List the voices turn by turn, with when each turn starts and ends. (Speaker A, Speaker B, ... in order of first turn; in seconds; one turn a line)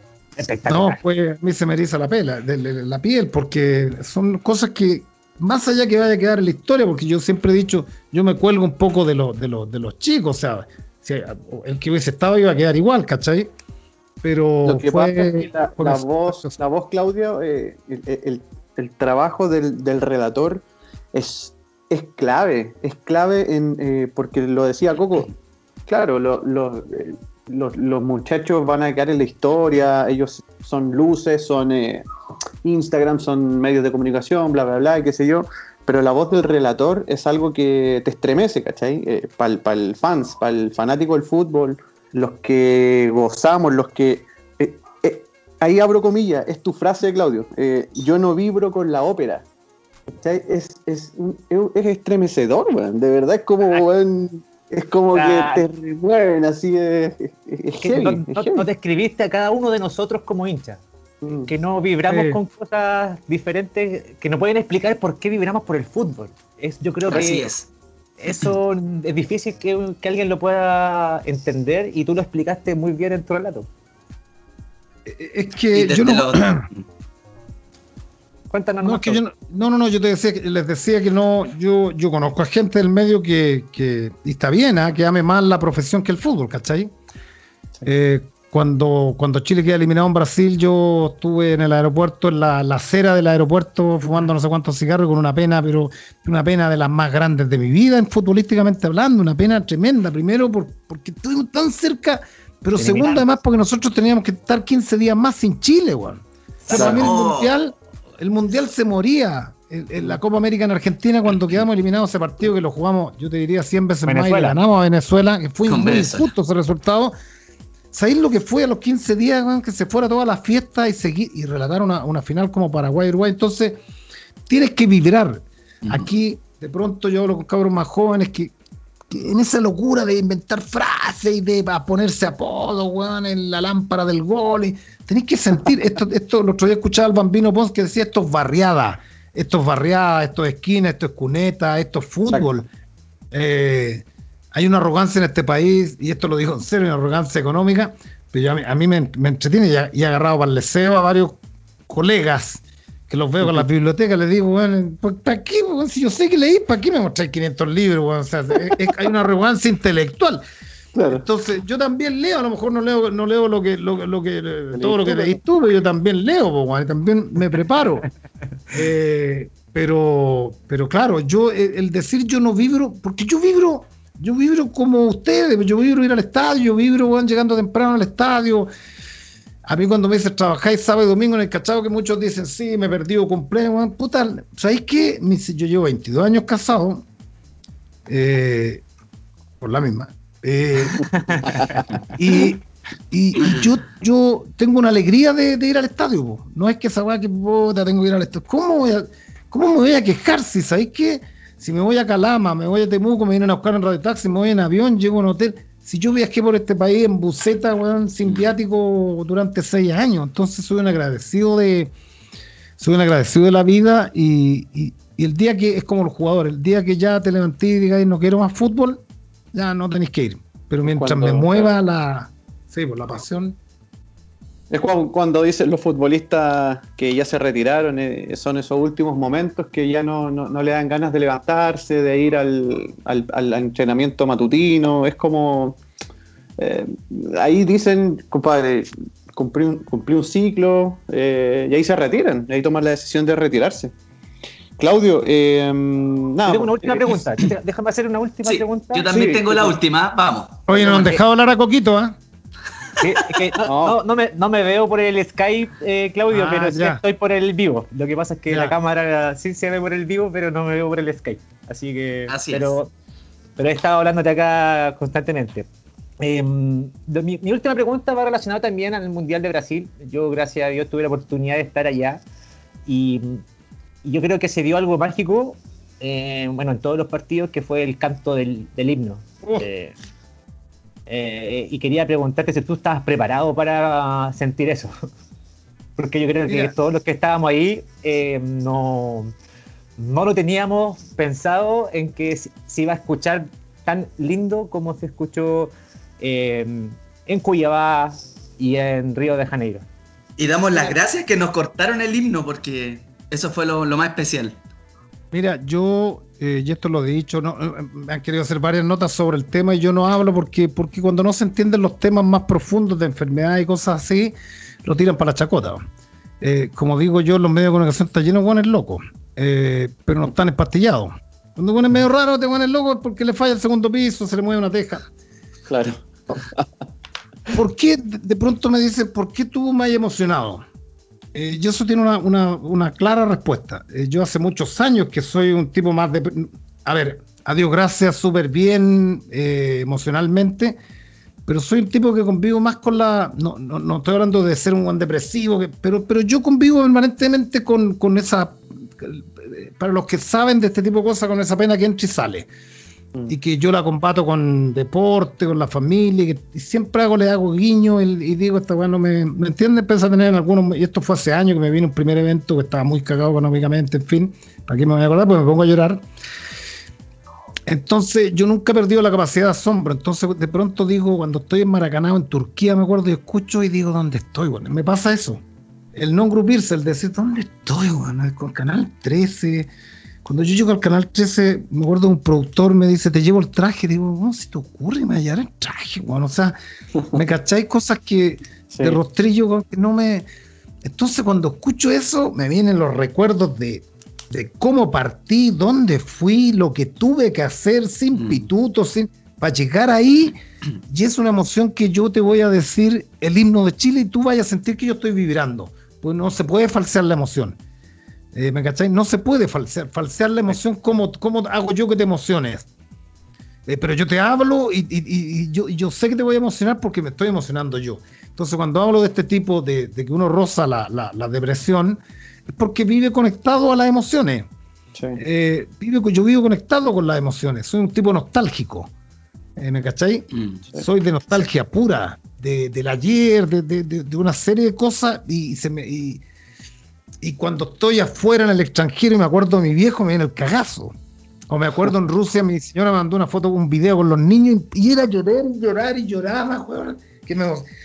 Speaker A: 0.4-1.0
Speaker B: 0.7-13.5
Speaker B: 14.2-16.6
Speaker C: 14.7-25.3
Speaker C: 25.9-32.0
Speaker C: 32.6-49.5
Speaker C: 50.1-58.7
Speaker A: 55.1-55.6
Speaker A: 57.8-60.8
Speaker C: 61.2-61.5
Speaker A: 61.5-67.5
Speaker B: 62.1-62.4
Speaker D: 67.1-67.7
Speaker A: 68.2-73.7
Speaker B: 75.1-76.7
Speaker D: 75.7-76.8
Speaker A: 78.5-79.2
Speaker B: 78.8-86.9
Speaker B: 87.8-117.1
Speaker A: 102.8-103.2
Speaker A: 106.7-107.0
Speaker C: 106.7-107.0
Speaker D: 106.8-107.5
Speaker A: 114.1-114.6
Speaker D: 115.7-116.3
Speaker B: 117.9-123.8
Speaker B: 124.5-128.5
Speaker B: 129.1-142.7
Speaker B: 143.3-160.4
Speaker C: 160.9-161.2
Speaker B: 161.1-168.1
Speaker C: 164.7-165.4
Speaker B: 168.7-178.7
Speaker B: 179.7-187.1
Speaker B: 188.1-188.8
Speaker B: 189.6-211.9
Speaker C: 191.5-191.9
Speaker B: 212.8-219.0
Speaker B: 219.5-223.6
Speaker C: 220.8-221.7
Speaker C: 224.7-235.8
Speaker C: 236.6-243.9
Speaker C: 244.8-247.2
Speaker A: 246.5-249.1
Speaker D: 248.4-251.1
Speaker C: 249.1-249.8
Speaker B: 250.7-252.2
Speaker A: 250.7-251.2
Speaker A: 253.0-262.9
Speaker C: 253.6-254.0
Speaker B: 256.3-257.0
Speaker B: 258.5-258.8
Speaker D: 262.3-262.8
Speaker A: 263.6-265.7
Speaker A: 266.2-272.2
Speaker A: 272.9-273.4
Speaker A: 274.0-279.9
Speaker A: 281.1-284.9
Speaker A: 286.0-289.3
Speaker B: 286.5-286.7
Speaker A: 290.0-299.9
Speaker D: 300.4-304.6
Speaker B: 305.3-315.8
Speaker B: 316.4-325.1
Speaker C: 325.7-326.7
Speaker B: 327.5-330.6
Speaker B: 331.3-340.8
Speaker B: 341.5-352.5
Speaker B: 353.3-366.0
Speaker B: 367.7-375.4
Speaker B: 375.9-379.7
Speaker B: 380.2-386.6
Speaker B: 387.1-390.2
Speaker C: 388.7-389.0
Speaker B: 390.8-400.4
Speaker B: 400.9-407.6
Speaker B: 408.3-412.7
Speaker B: 413.7-424.5
Speaker C: 424.9-425.2
Speaker B: 425.2-428.9
Speaker B: 429.6-436.2
Speaker D: 430.3-430.6
Speaker B: 437.2-440.9
Speaker B: 441.5-447.6